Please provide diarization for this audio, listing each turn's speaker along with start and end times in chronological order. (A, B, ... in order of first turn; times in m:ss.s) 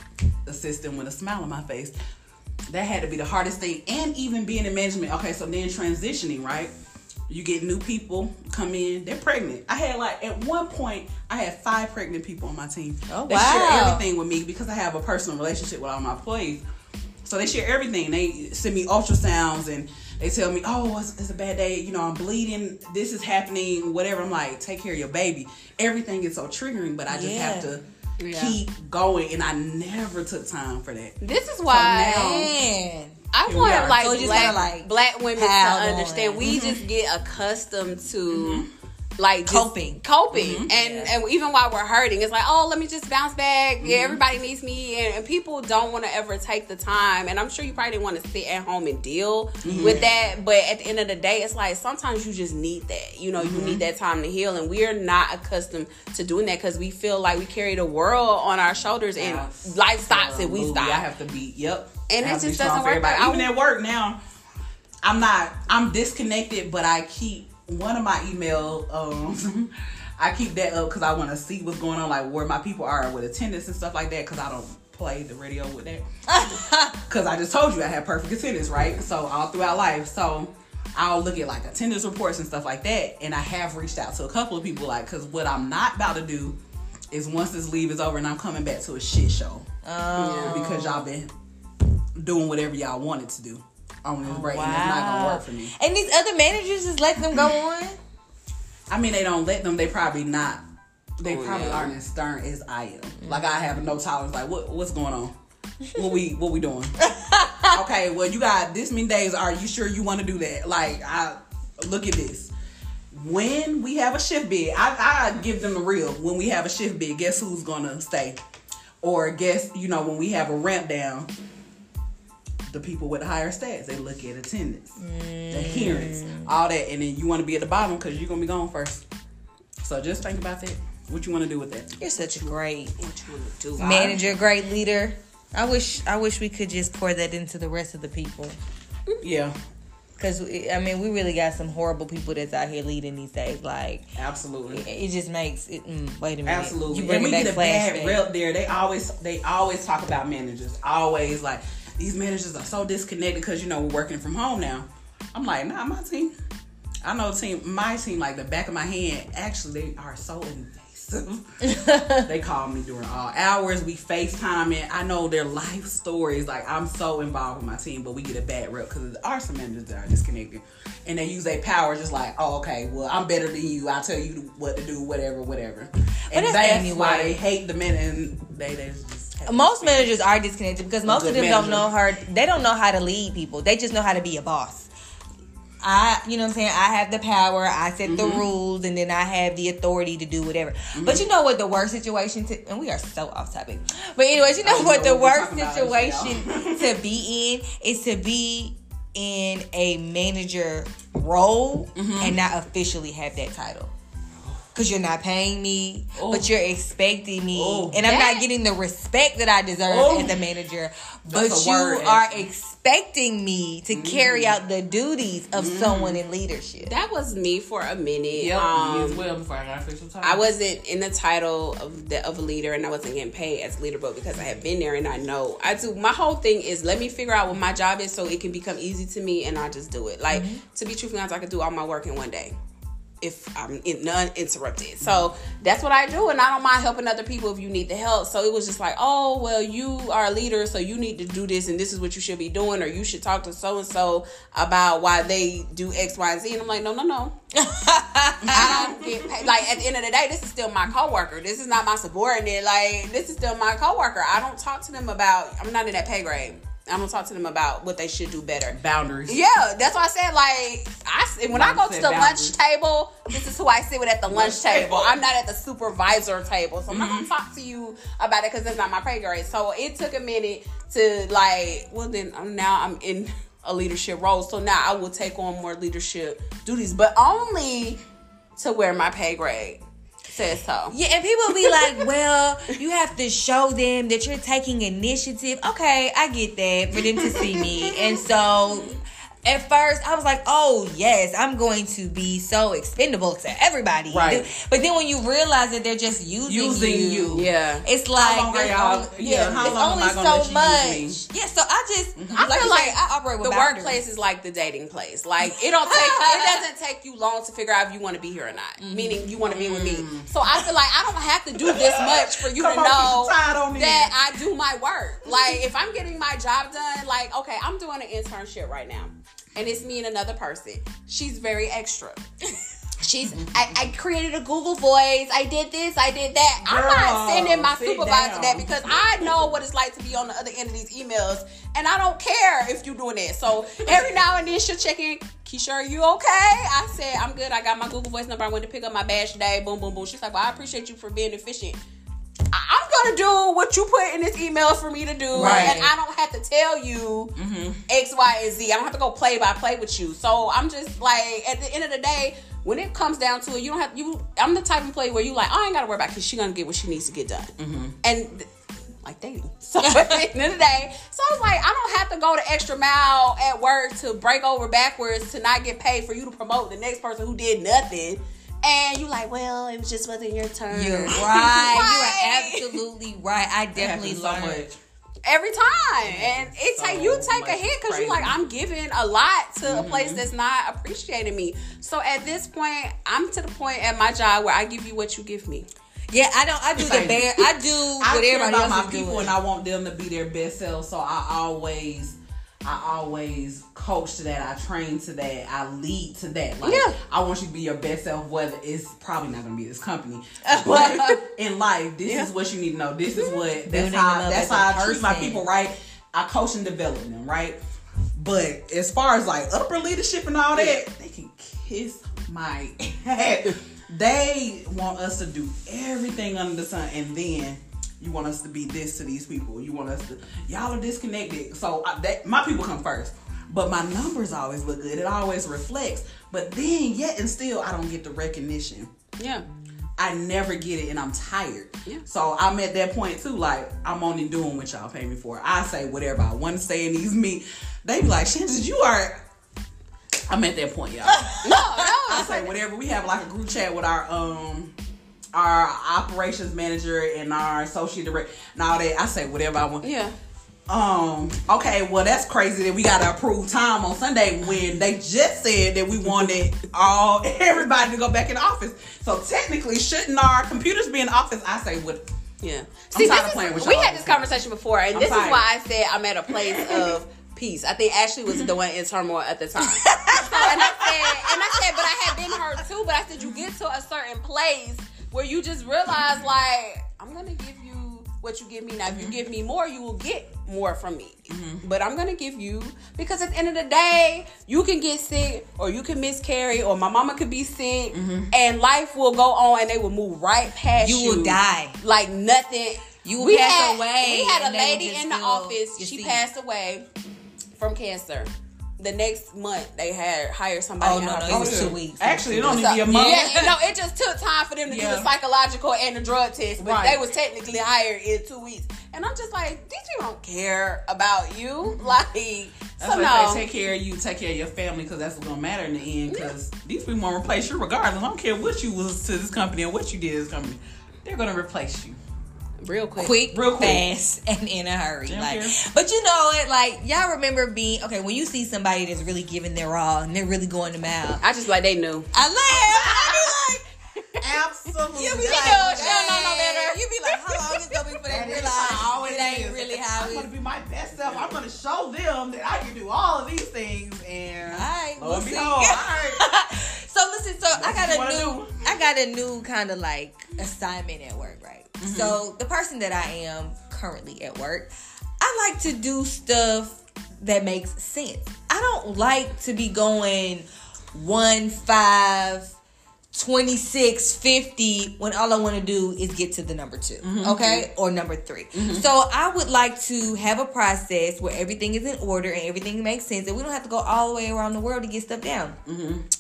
0:00.5-0:02.0 A
0:02.7-0:06.7 A
0:07.3-0:16.6 A
0:13.1-0:14.0 B
0:17.2-0:32.5 A
0:27.1-0:27.7 B
0:28.2-0:28.6 C
0:31.2-0:32.5 C
0:32.2-0:33.2 B
0:33.3-0:38.7 C
0:33.5-0:34.6 A
0:33.9-0:36.6 B
0:36.4-0:36.8 A
0:38.3-0:38.7 A
0:39.2-1:01.0 C
0:39.5-0:40.0 B
0:40.3-0:40.7 A
0:40.7-0:41.1 B
0:43.8-0:44.2 A
0:49.6-0:50.0 A
0:49.6-0:50.1 B
0:53.4-0:53.8 A
0:59.2-1:04.2 A
1:02.1-1:03.5 C
1:05.0-1:16.1 A
1:16.3-1:17.0 B
1:17.1-1:26.6 A
1:27.1-1:29.7 A
1:29.8-1:31.1 B
1:30.2-1:30.6 C
1:30.4-1:31.3 A
1:32.2-1:35.7 A
1:34.2-1:38.0 B
1:38.9-1:40.6 A
1:41.2-1:45.3 A
1:41.2-1:41.9 C
1:43.2-1:43.8 B
1:45.9-1:47.0 A
1:47.0-1:47.8 B
1:47.6-1:52.5 A
1:53.1-1:58.4 A
1:59.0-2:01.3 A
2:02.7-2:05.0 A
2:05.0-2:06.5 B
2:05.5-2:09.0 A
2:09.8-2:12.0 A
2:12.0-2:13.0 B
2:12.2-2:14.1 C
2:13.8-2:18.6 B
2:13.8-2:14.4 A
2:19.2-2:19.6 A
2:20.2-2:24.1 B
2:24.2-2:24.9 A
2:24.7-2:28.2 B
2:26.4-2:36.3 A
2:37.0-3:00.1 A
2:41.6-2:42.3 B
2:56.3-2:57.4 B
2:59.5-3:04.9 B
3:01.0-3:01.9 A
3:05.8-3:23.9 B
3:08.0-3:08.4 A
3:11.0-3:11.2 A
3:14.6-3:17.0 A
3:22.0-3:22.4 A
3:24.8-3:36.9 B
3:26.2-3:26.5 A
3:27.5-3:28.1 A
3:28.1-3:28.4 C
3:29.9-3:30.4 A
3:31.3-3:32.5 A
3:33.9-3:34.6 A
3:35.5-3:36.2 A
3:36.8-3:39.3 C
3:38.4-3:40.4 A
3:40.2-3:52.6 C
3:50.3-3:50.6 B
3:53.2-4:07.3 C
3:55.0-3:55.3 A
4:07.5-4:08.9 B
4:08.4-4:09.5 A
4:08.5-4:18.8 C
4:18.7-4:19.4 A
4:19.3-4:38.0 C
4:21.5-4:22.6 A
4:24.3-4:25.2 A
4:26.9-4:27.3 A
4:38.6-4:41.0 C
4:40.9-5:04.0 B
4:41.6-4:42.0 C
4:47.0-4:48.1 A
4:54.1-4:54.4 A
4:56.5-4:57.5 A
4:57.3-4:57.8 C
4:58.2-5:01.3 A
5:02.2-5:02.7 A
5:02.4-5:22.2 C
5:05.4-5:06.6 B
5:08.8-5:09.3 B
5:09.3-5:10.7 A
5:11.6-5:14.2 A
5:23.0-5:41.8 C
5:23.3-5:23.6 A
5:26.6-5:29.5 A
5:33.7-5:34.1 A
5:42.5-5:47.3 C
5:45.3-5:45.9 B
5:45.4-5:45.8 A
5:47.4-5:47.8 A
5:47.9-5:58.5 C
5:57.6-5:58.0 A
5:59.0-6:12.8 C
5:59.8-6:00.2 B
6:10.7-6:14.6 B
6:11.1-6:11.5 A
6:13.8-6:14.8 A
6:15.2-6:25.7 C
6:16.0-6:18.4 A
6:19.6-6:20.2 A
6:26.1-6:29.4 B
6:26.8-6:47.6 A
6:36.6-6:37.0 C
6:40.4-6:41.2 B
6:43.2-6:43.4 C
6:43.6-6:45.4 B
6:48.2-7:08.9 A
6:50.5-6:50.8 C
7:09.2-7:09.4 C
7:10.0-7:19.2 A
7:20.3-7:24.8 A
7:21.1-7:21.6 B
7:21.4-7:22.5 C
7:25.3-7:29.9 A
7:29.8-7:30.1 C
7:30.7-7:42.0 A
7:42.4-8:16.9 C
7:42.9-7:44.4 A
7:44.9-7:45.5 A
7:46.3-7:46.9 A
7:49.8-7:51.9 B
7:53.2-7:53.5 A
7:58.9-7:59.2 A
8:01.3-8:01.6 A
8:07.9-8:08.3 A
8:10.8-8:11.8 B
8:13.0-8:16.2 B
8:17.6-8:21.7 C
8:20.8-8:23.5 B
8:21.3-8:23.6 A
8:22.5-8:33.5 C
8:24.7-8:25.1 A
8:26.6-8:27.0 A
8:31.7-8:32.0 A
8:32.8-8:42.0 A
8:42.6-8:43.2 C
8:43.0-8:51.2 B
8:43.3-8:43.8 A
8:45.1-8:45.6 A
8:51.2-8:52.1 C
8:52.1-8:53.6 B
8:52.5-8:53.3 A
8:54.2-8:56.0 A
8:55.0-9:00.3 B
8:55.0-8:57.8 C
8:58.1-9:06.2 A
9:04.5-9:22.6 B
9:07.5-9:08.6 A
9:11.8-9:12.2 A
9:23.1-9:35.6 B
9:27.0-9:27.7 A
9:28.5-9:28.9 A
9:35.7-9:36.1 A